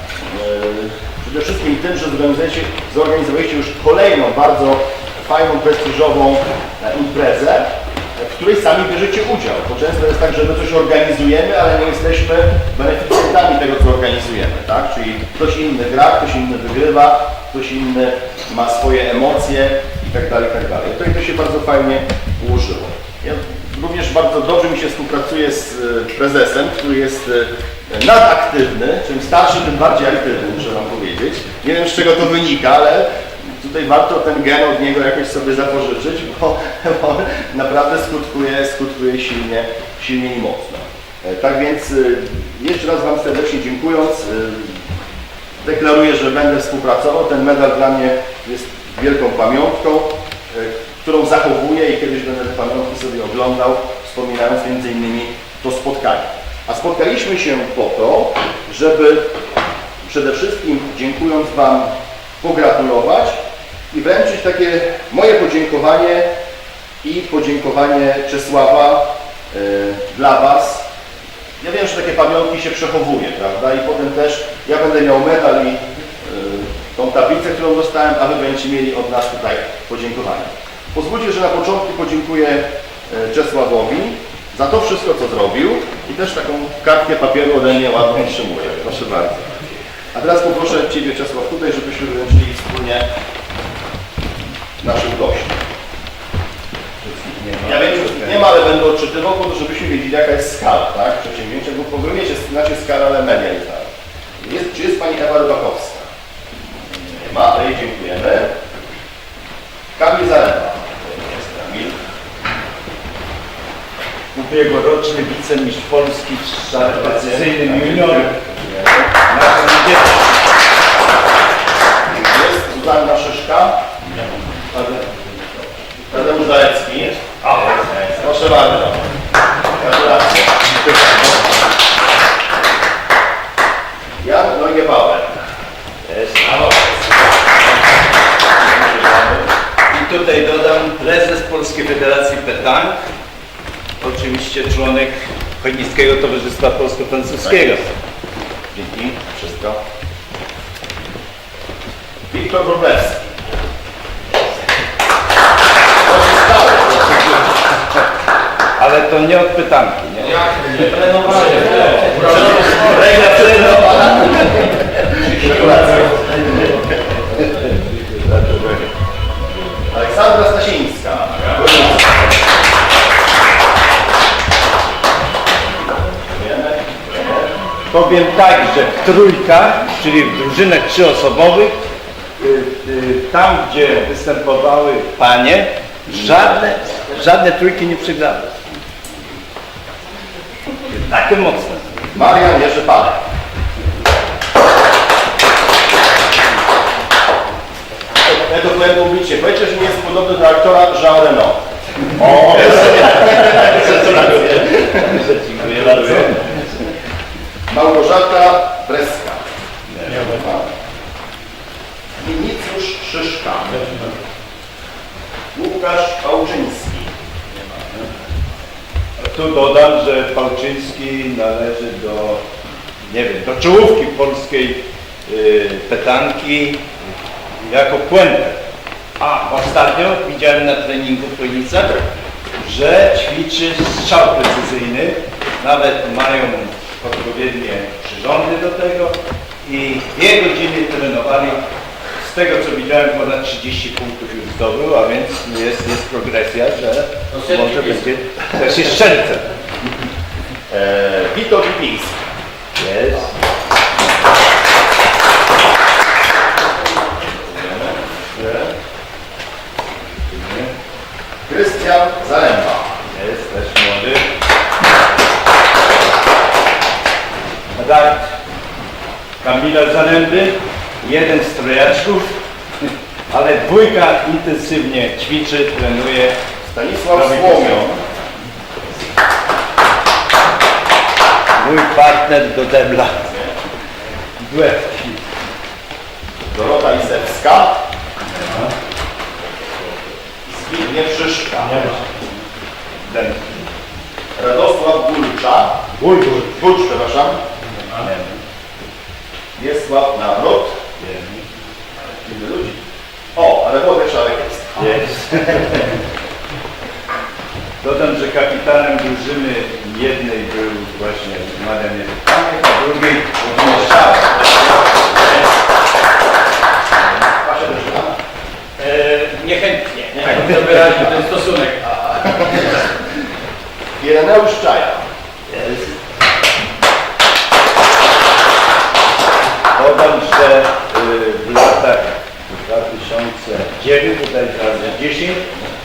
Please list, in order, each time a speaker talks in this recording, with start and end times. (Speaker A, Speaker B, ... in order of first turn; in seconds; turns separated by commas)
Speaker A: 0.3-44.8, Speaker A: 45.6-59.3, Speaker A: 60.0-63.4, Speaker A: 63.9-66.3, Speaker A: 67.0-70.8, Speaker A: 71.6-93.0, Speaker A: 94.8-95.6, Speaker B: 97.0-98.4, Speaker A: 97.6-106.0, Speaker A: 107.0-108.5, Speaker A: 110.0-112.0, Speaker B: 114.3-118.3, Speaker A: 116.7-119.1, Speaker B: 119.1-120.2, Speaker A: 122.1-123.8, Speaker A: 124.7-125.1, Speaker A: 126.1-129.1, Speaker A: 129.7-130.9, Speaker A: 134.2-135.4, Speaker B: 136.1-136.7, Speaker A: 138.7-139.5, Speaker B: 139.9-142.9, Speaker B: 144.0-147.8, Speaker A: 147.4-147.8, Speaker A: 148.7-149.8, Speaker A: 152.3-153.3, Speaker A: 156.0-157.4, Speaker B: 158.8-160.7, Speaker C: 160.4-163.0, Speaker A: 161.3-166.9, Speaker B: 163.0-164.0, Speaker B: 165.5-165.9, Speaker B: 167.4-168.9, Speaker A: 169.9-172.0, Speaker A: 176.2-177.5, Speaker B: 177.9-181.8, Speaker B: 182.4-188.8, Speaker B: 190.9-191.9, Speaker A: 192.1-193.2, Speaker A: 198.3-205.3, Speaker B: 203.8-206.8, Speaker A: 207.7-209.4, Speaker B: 209.9-210.2, Speaker A: 210.1-210.7, Speaker A: 212.2-214.1, Speaker A: 215.5-217.8, Speaker B: 219.2-222.4, Speaker B: 223.1-226.8, Speaker B: 227.6-228.6, Speaker B: 229.2-232.0, Speaker B: 232.6-241.6, Speaker B: 242.2-249.5, Speaker C: 247.3-247.9, Speaker A: 250.7-252.2, Speaker B: 252.8-253.3, Speaker A: 258.3-258.7, Speaker B: 260.3-260.7, Speaker A: 261.5-263.0, Speaker B: 263.1-264.2, Speaker B: 267.8-268.4, Speaker B: 269.4-272.3, Speaker B: 273.3-276.4, Speaker A: 276.6-278.0, Speaker B: 277.1-278.0, Speaker B: 281.6-283.3, Speaker A: 283.2-283.5, Speaker B: 284.4-285.2, Speaker A: 286.5-287.8, Speaker B: 288.3-288.7, Speaker A: 290.4-292.0, Speaker B: 291.7-292.4, Speaker B: 293.0-293.6, Speaker A: 294.4-297.4, Speaker B: 296.0-296.4, Speaker B: 297.9-298.4, Speaker A: 299.6-300.8, Speaker B: 301.0-301.4, Speaker A: 302.2-302.8, Speaker A: 303.3-304.9, Speaker B: 304.8-305.9, Speaker B: 307.8-314.5, Speaker A: 317.2-318.2, Speaker C: 318.8-321.8, Speaker A: 320.1-321.2, Speaker A: 321.8-323.0, Speaker A: 324.0-325.0, Speaker B: 325.5-325.9, Speaker B: 329.7-335.4